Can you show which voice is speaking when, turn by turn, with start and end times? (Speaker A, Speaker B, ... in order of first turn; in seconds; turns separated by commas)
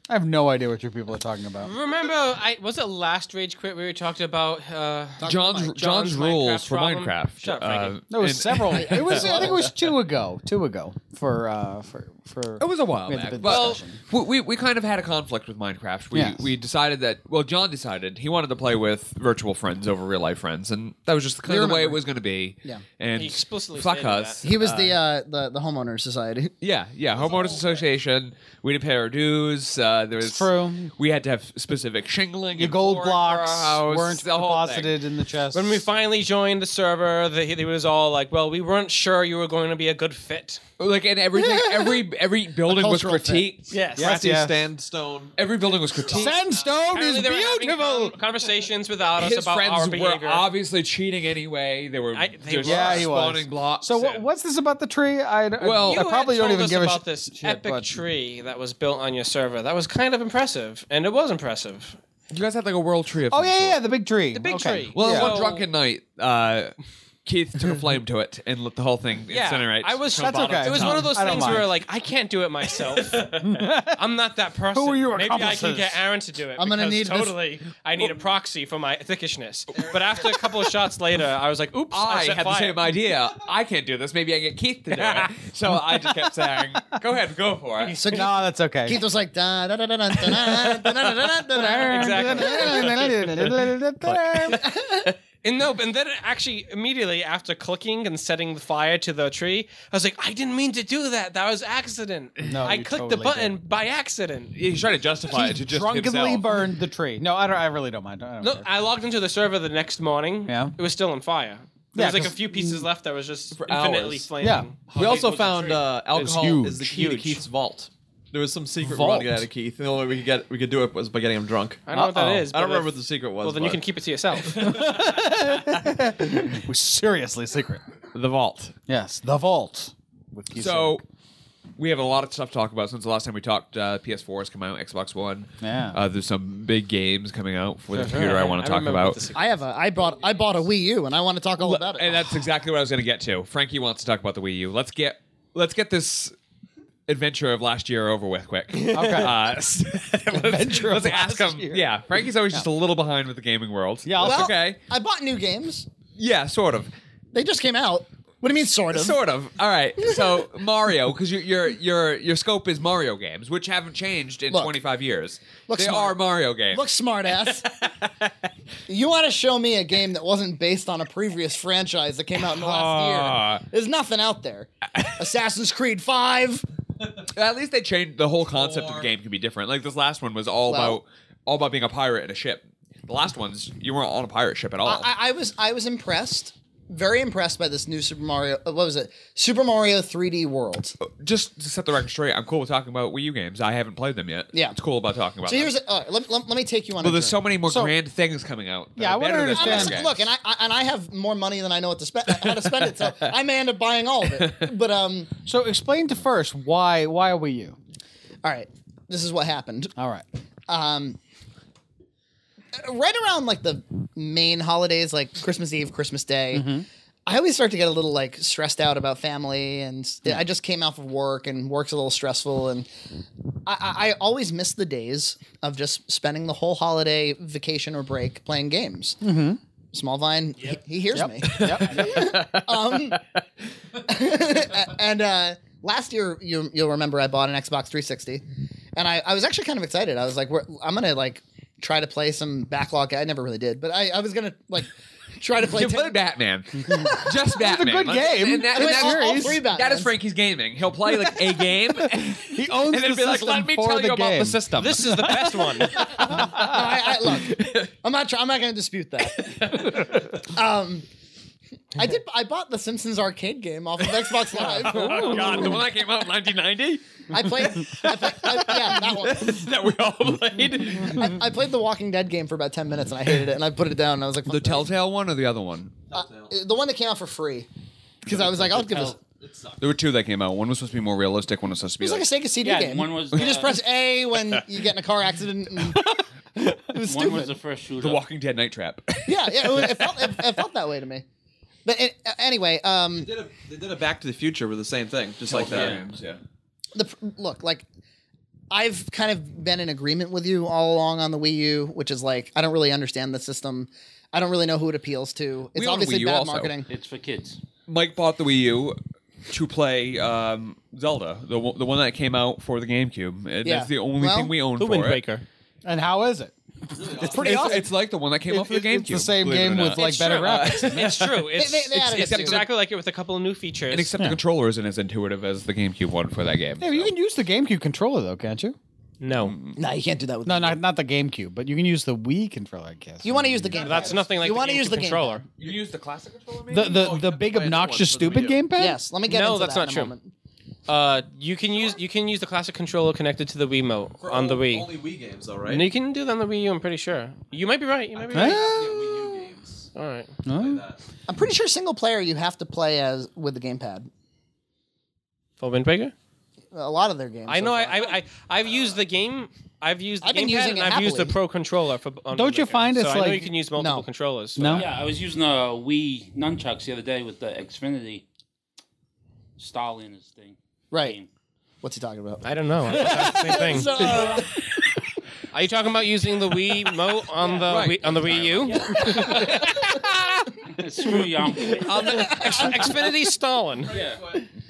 Speaker A: 0.1-1.7, Speaker B: 1.6-8.0, Speaker C: 5.2-5.8, Speaker D: 5.2-9.6, Speaker A: 8.1-14.0, Speaker C: 8.7-9.6, Speaker D: 12.6-25.0, Speaker B: 13.4-13.8, Speaker A: 16.1-16.5, Speaker C: 21.4-22.0, Speaker B: 23.1-24.4, Speaker C: 24.4-26.5, Speaker D: 26.6-35.0, Speaker E: 27.1-27.9, Speaker A: 30.2-30.9, Speaker A: 32.5-35.8, Speaker B: 35.5-40.6, Speaker D: 40.8-43.8, Speaker C: 41.3-42.1, Speaker C: 42.6-43.5, Speaker B: 43.7-44.2, Speaker E: 43.9-46.7, Speaker A: 44.0-44.6, Speaker D: 45.4-46.4, Speaker A: 46.1-48.2, Speaker B: 46.9-50.5, Speaker D: 49.2-54.0, Speaker B: 52.1-53.1, Speaker A: 52.6-58.0, Speaker B: 54.0-54.2, Speaker D: 55.6-56.0, Speaker B: 55.8-62.0, Speaker D: 62.3-63.8, Speaker A: 63.3-65.3, Speaker B: 64.3-65.7, Speaker D: 65.0-71.7, Speaker B: 69.3-82.8, Speaker A: 70.1-71.7, Speaker A: 73.2-74.0, Speaker A: 74.7-76.0, Speaker C: 76.6-77.4, Speaker E: 79.8-80.3, Speaker D: 81.9-88.2, Speaker B: 84.9-85.2, Speaker A: 86.0-86.2, Speaker C: 87.9-93.0, Speaker A: 88.1-89.0, Speaker A: 91.5-94.6, Speaker B: 91.7-93.2, Speaker C: 94.5-95.1, Speaker B: 94.5-104.6, Speaker A: 102.4-103.6, Speaker D: 104.5-106.7, Speaker A: 105.3-108.7, Speaker B: 108.4-115.7, Speaker A: 110.5-110.8, Speaker A: 112.0-112.9, Speaker D: 113.5-114.3, Speaker A: 114.4-114.7, Speaker F: 114.9-116.0, Speaker E: 115.0-121.8, Speaker A: 116.1-116.8, Speaker B: 116.7-117.4, Speaker A: 118.8-119.5, Speaker D: 118.9-119.2, Speaker B: 121.9-124.7, Speaker A: 121.9-122.5, Speaker E: 122.5-123.8, Speaker A: 124.5-127.8, Speaker D: 128.1-128.8, Speaker A: 128.9-131.0, Speaker D: 130.6-131.0, Speaker D: 131.8-139.2, Speaker A: 135.6-136.0, Speaker A: 137.9-138.4, Speaker B: 138.1-139.6, Speaker C: 139.3-142.5, Speaker D: 141.6-146.3, Speaker D: 147.1-154.8, Speaker A: 148.9-149.4, Speaker A: 150.3-151.9, Speaker A: 154.1-154.5, Speaker C: 154.2-155.9, Speaker D: 156.2-156.9, Speaker C: 157.3-159.2, Speaker D: 158.9-166.8, Speaker C: 160.0-160.4, Speaker C: 165.7-167.8, Speaker D: 167.5-168.3, Speaker C: 168.9-176.7, Speaker D: 172.4-173.6, Speaker D: 177.3-185.1, Speaker E: 178.5-179.1, Speaker C: 180.7-181.0, Speaker C: 184.8-191.0, Speaker D: 191.0-195.7, Speaker C: 195.4-197.4, Speaker D: 197.0-200.3, Speaker A: 197.7-197.9, Speaker A: 199.0-200.0, Speaker C: 199.5-205.3, Speaker D: 202.4-203.3, Speaker D: 204.4-204.7, Speaker A: 205.5-207.8, Speaker C: 208.4-209.9, Speaker A: 210.0-210.2, Speaker C: 210.7-211.2, Speaker C: 212.7-216.7, Speaker A: 216.5-216.9, Speaker C: 217.3-222.9, Speaker C: 223.7-229.3, Speaker A: 229.2-229.6, Speaker C: 229.9-233.2, Speaker A: 231.1-232.1, Speaker D: 231.5-233.1, Speaker C: 234.0-238.4, Speaker C: 238.9-246.2, Speaker D: 245.7-255.4, Speaker A: 246.8-249.6, Speaker C: 246.9-247.3, Speaker C: 248.7-250.1, Speaker A: 251.9-256.8, Speaker B: 254.8-256.1, Speaker D: 255.9-257.9, Speaker C: 256.2-261.1, Speaker D: 259.4-260.3, Speaker C: 261.9-265.8, Speaker D: 264.0-271.4, Speaker C: 267.3-269.6, Speaker C: 271.1-274.9, Speaker D: 274.5-276.0, Speaker E: 276.1-276.6, Speaker C: 276.1-277.7, Speaker C: 278.3-279.2, Speaker E: 278.7-279.9, Speaker D: 279.8-282.3, Speaker C: 282.0-286.1, Speaker F: 282.6-283.8, Speaker C: 286.9-287.6, Speaker F: 287.0-288.2, Speaker D: 288.0-290.5, Speaker C: 289.2-291.2, Speaker C: 291.9-293.3, Speaker E: 293.2-296.0, Speaker D: 295.5-296.4, Speaker F: 295.7-296.0, Speaker C: 296.9-297.9, Speaker C: 298.7-306.9, Speaker D: 305.8-306.8, Speaker F: 306.9-307.6, Speaker D: 307.9-315.2, Speaker C: 313.6-314.6, Speaker B: 314.8-315.4, Speaker A: 315.9-317.9, Speaker E: 316.9-317.8, Speaker D: 317.3-321.4, Speaker A: 318.5-321.1, Speaker B: 320.0-324.1, Speaker C: 321.6-322.7, Speaker D: 322.1-322.7, Speaker D: 323.9-327.1, Speaker A: 326.8-328.8, Speaker B: 329.2-329.6, Speaker D: 329.4-329.8, Speaker C: 329.8-330.8, Speaker A: 330.4-334.1, Speaker C: 333.2-335.4, Speaker B: 333.7-335.4, Speaker D: 335.6-337.1, Speaker A: 336.7-339.0, Speaker E: 336.9-338.7, Speaker C: 338.8-340.3, Speaker B: 339.3-340.1, Speaker B: 340.9-344.9, Speaker E: 344.2-345.9, Speaker B: 345.7-348.6, Speaker E: 348.2-349.9, Speaker A: 348.3-349.3, Speaker B: 349.9-350.4, Speaker A: 350.5-350.8, Speaker E: 350.5-351.0, Speaker C: 351.3-354.1, Speaker B: 355.6-356.1, Speaker C: 356.7-358.1, Speaker B: 357.5-364.9, Speaker E: 358.7-359.0, Speaker C: 360.2-361.4, Speaker A: 362.3-363.5, Speaker C: 363.8-364.1, Speaker A: 364.6-364.9, Speaker F: 364.7-368.2, Speaker F: 369.6-371.3, Speaker C: 370.9-371.2, Speaker C: 371.8-374.6, Speaker B: 372.4-374.1, Speaker B: 375.5-380.0, Speaker F: 377.4-377.8, Speaker D: 377.6-379.4, Speaker F: 378.4-379.9, Speaker C: 379.0-380.0, Speaker F: 380.6-382.3, Speaker C: 381.5-383.0, Speaker D: 381.9-382.9, Speaker B: 381.9-383.9, Speaker E: 383.8-384.5, Speaker F: 383.9-384.2